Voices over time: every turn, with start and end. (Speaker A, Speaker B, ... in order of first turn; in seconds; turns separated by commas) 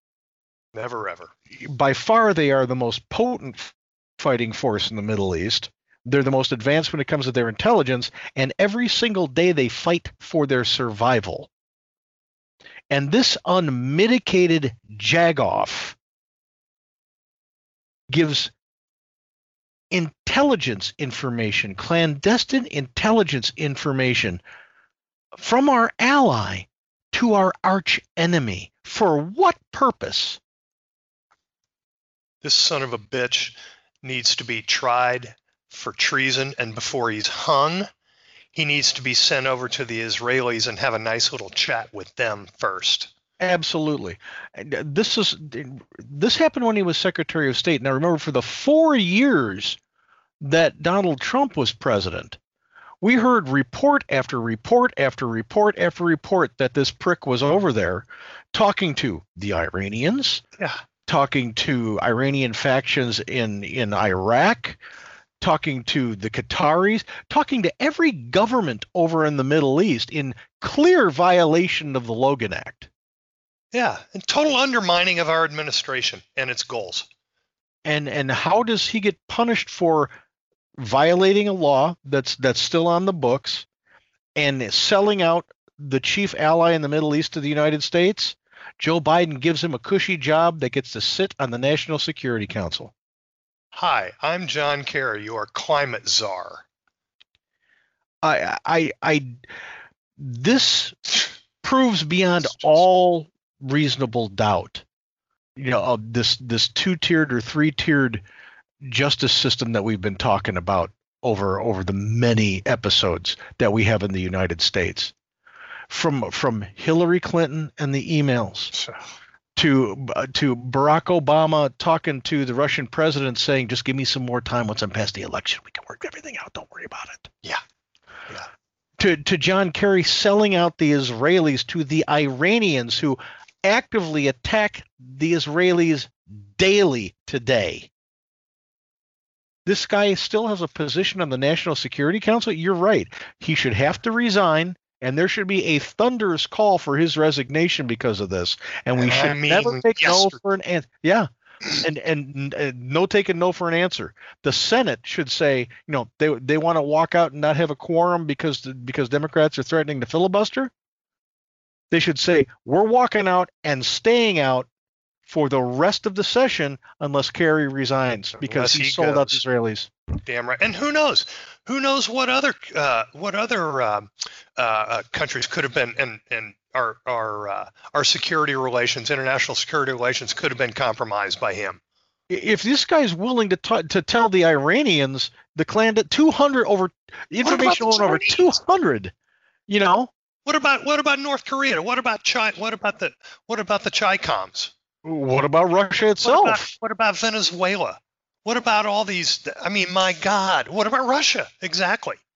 Speaker A: 0.7-1.3, Speaker B: 1.6-11.5, Speaker B: 12.9-15.9, Speaker B: 18.1-18.5, Speaker B: 19.9-24.4, Speaker B: 25.4-30.4, Speaker A: 32.4-37.9, Speaker A: 38.5-43.1, Speaker B: 43.4-49.8, Speaker B: 50.4-52.4, Speaker B: 53.0-60.4, Speaker B: 61.1-64.8, Speaker B: 65.4-72.9, Speaker A: 73.7-77.0, Speaker B: 77.8-80.1, Speaker B: 80.8-83.7, Speaker B: 84.3-92.9, Speaker A: 93.7-96.6, Speaker B: 98.2-99.3, Speaker B: 100.2-104.8, Speaker B: 105.6-108.2, Speaker B: 108.8-115.1, Speaker B: 115.9-118.7, Speaker B: 119.5-127.3, Speaker B: 129.0-137.9, Speaker B: 139.7-160.7, Speaker A: 148.9-150.4, Speaker B: 161.9-164.7, Speaker B: 165.2-169.9, Speaker A: 168.4-169.4, Speaker A: 170.2-181.8, Speaker B: 182.3-189.1, Speaker A: 187.4-188.5, Speaker B: 189.7-190.1, Speaker A: 190.4-194.7, Speaker B: 195.0-196.7, Speaker A: 196.2-202.2